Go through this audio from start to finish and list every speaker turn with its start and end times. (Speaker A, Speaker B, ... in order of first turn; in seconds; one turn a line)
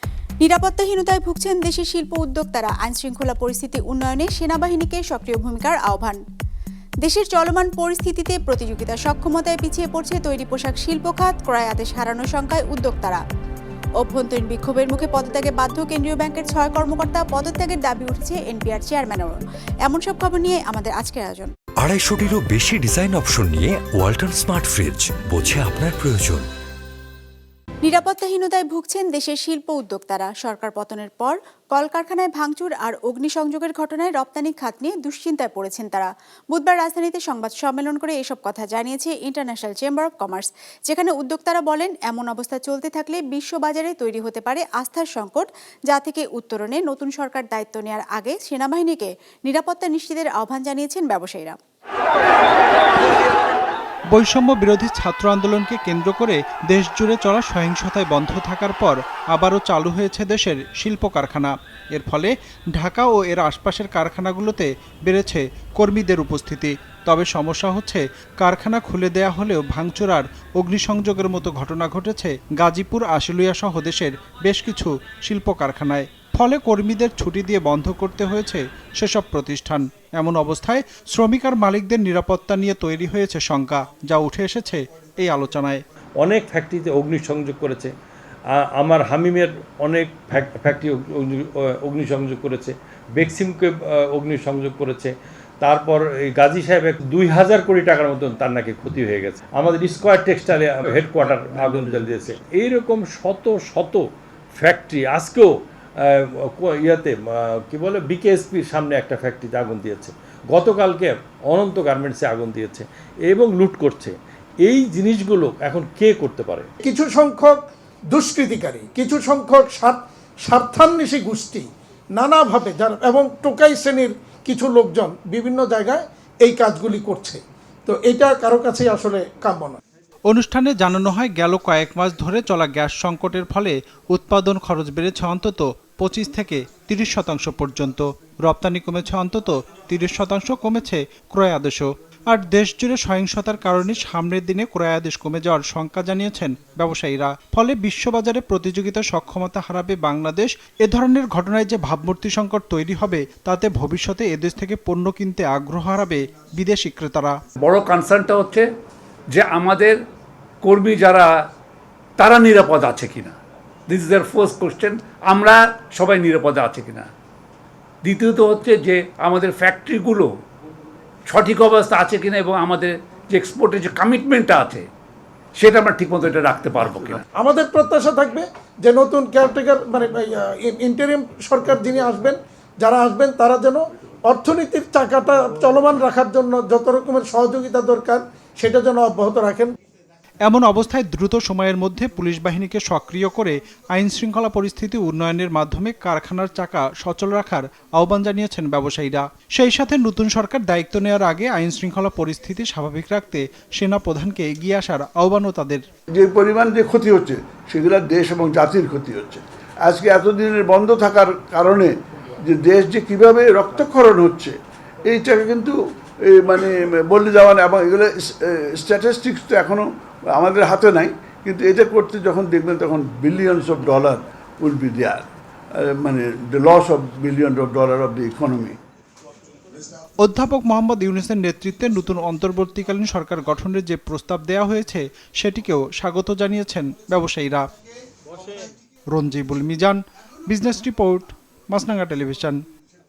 Speaker A: 0.4-6.2
Speaker A: 7.0-13.2
Speaker A: 14.0-21.5
Speaker B: 21.8-26.5
Speaker A: 27.8-51.6
Speaker C: 54.1-85.8
Speaker D: 86.2-87.9
Speaker D: 88.5-104.1
Speaker D: 104.6-116.7
Speaker E: 116.8-117.6
Speaker E: 118.1-129.8
Speaker C: 130.2-157.4
Speaker F: 157.6-158.7
Speaker F: 159.3-160.0
Speaker F: 160.6-161.3
Speaker F: 162.2-163.3
Speaker F: 163.9-167.1
Speaker F: 168.0-170.3
Speaker F: 171.3-174.8
Speaker F: 175.6-177.2
Speaker E: 177.3-189.7
Speaker C: 190.4-205.8
Speaker G: 206.2-211.9
Speaker G: 212.4-225.3
Speaker G: 225.8-228.8
Speaker C: 230.2-237.6
Speaker C: 239.1-242.6